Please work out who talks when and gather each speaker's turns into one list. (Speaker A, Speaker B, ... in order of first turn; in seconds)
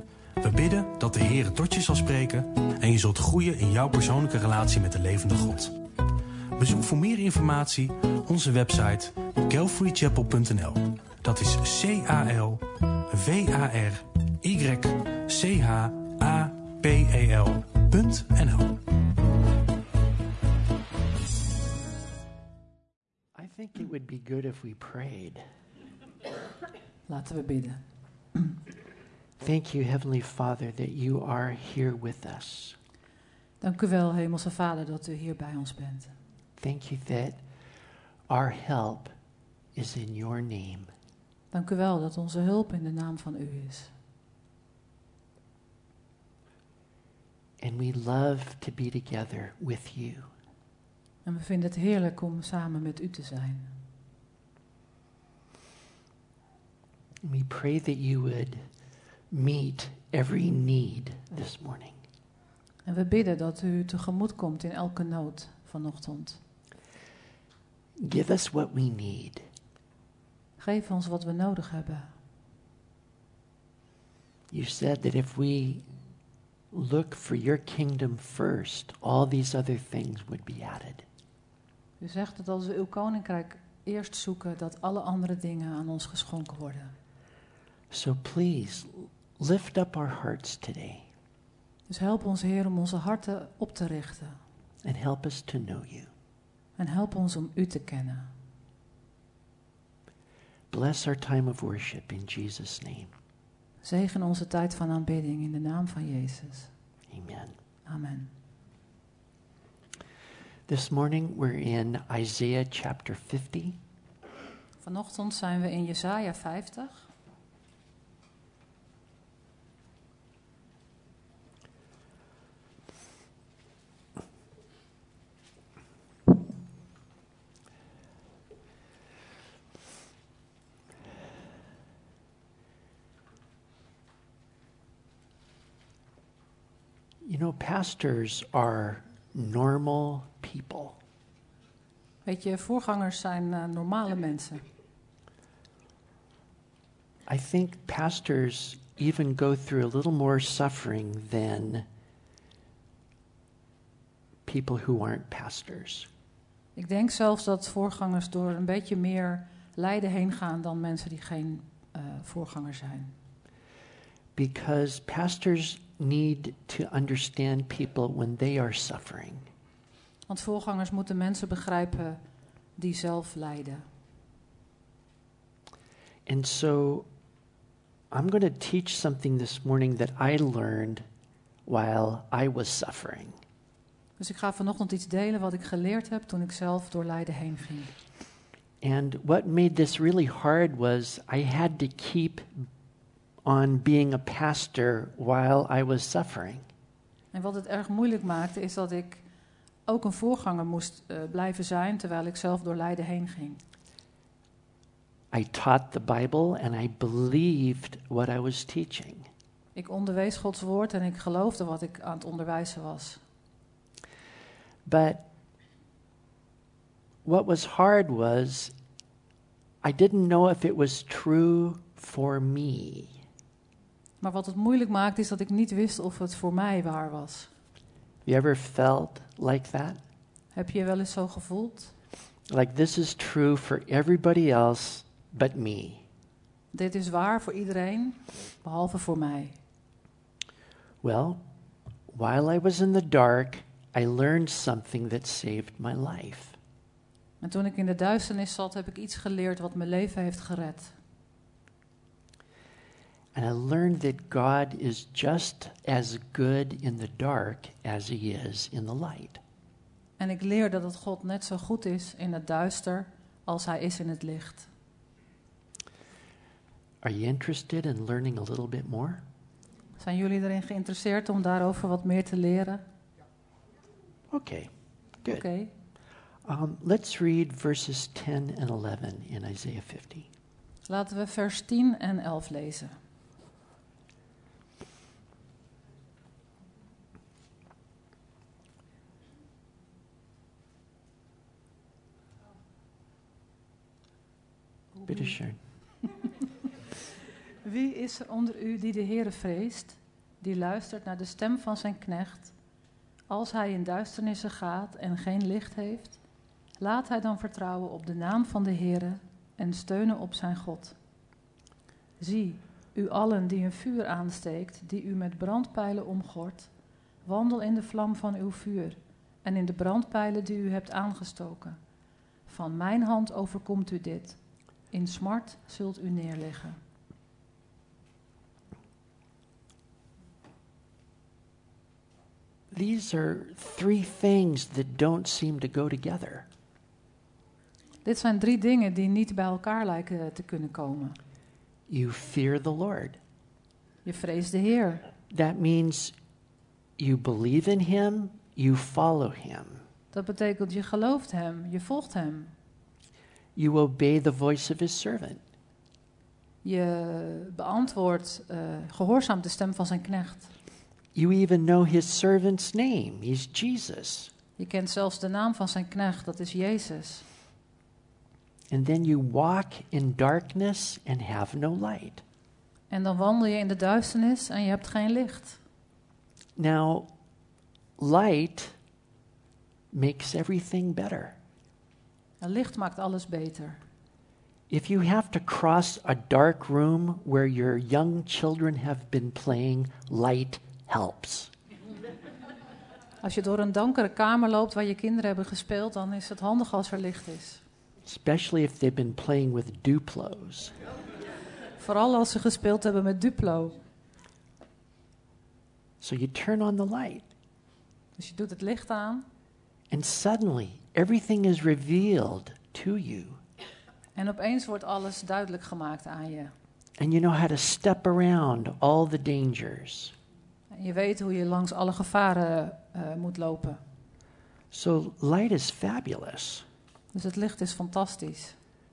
Speaker A: 0.4-5.7, 6.5-18.8
Speaker B: 23.3-25.4, 29.4-32.8, 36.6-37.4, 38.3-39.1, 39.7-40.9, 47.6-50.3, 57.2-58.6, 59.3-62.0, 68.0-69.4, 74.5-75.8, 76.7-81.0, 87.9-91.1, 94.8-96.1, 100.7-103.1, 107.1-107.5, 110.7-113.8, 137.2-141.0, 147.3-151.8, 154.4-156.1, 164.3-169.5, 176.2-177.1, 178.1-181.0, 181.7-183.4, 188.8-192.7, 193.4-196.7, 205.3-209.3, 214.8-215.3, 217.2-218.7, 219.8-223.2, 228.2-230.0, 232.5-236.0, 241.0-241.4, 242.1-246.6, 253.3-259.4, 267.0-269.2, 274.3-274.7, 276.4-280.3, 295.1-295.6, 332.7-336.5, 341.9-343.2, 345.3-346.1, 347.0-349.8, 353.6-355.4, 361.1-364.3, 368.7-372.2, 376.6-377.1, 378.0-378.8, 379.9-381.4, 384.7-391.5, 398.0-400.7, 406.0-407.2, 409.9-413.4, 417.0-420.1, 424.7-426.6
Speaker C: 27.1-27.8, 33.6-36.1, 41.5-43.9, 51.2-53.7, 62.9-66.4, 70.6-72.1, 82.0-86.9, 91.9-94.4, 96.8-98.3, 103.8-106.7, 107.8-108.3, 114.8-117.1, 142.2-144.6, 156.8-163.1, 170.3-172.2, 172.8-173.8, 184.2-187.9, 197.3-199.2, 199.9-203.6, 209.7-213.2, 224.2-227.5, 230.5-231.9, 236.7-239.6, 247.4-250.9, 260.2-264.7, 270.0-272.8, 275.3-275.7, 280.9-282.9, 294.9-295.4, 297.6-302.5, 303.3-306.2, 306.8-310.9, 312.2-316.7, 317.2-321.8, 322.5-324.4, 324.9-326.8, 338.0-341.2, 344.0-345.1, 350.1-352.5, 356.6-360.5, 364.6-367.2, 372.9-375.6, 382.4-383.8, 393.2-397.6, 401.8-403.8, 408.2-409.2, 414.1-416.5, 420.7-423.8, 427.1-428.6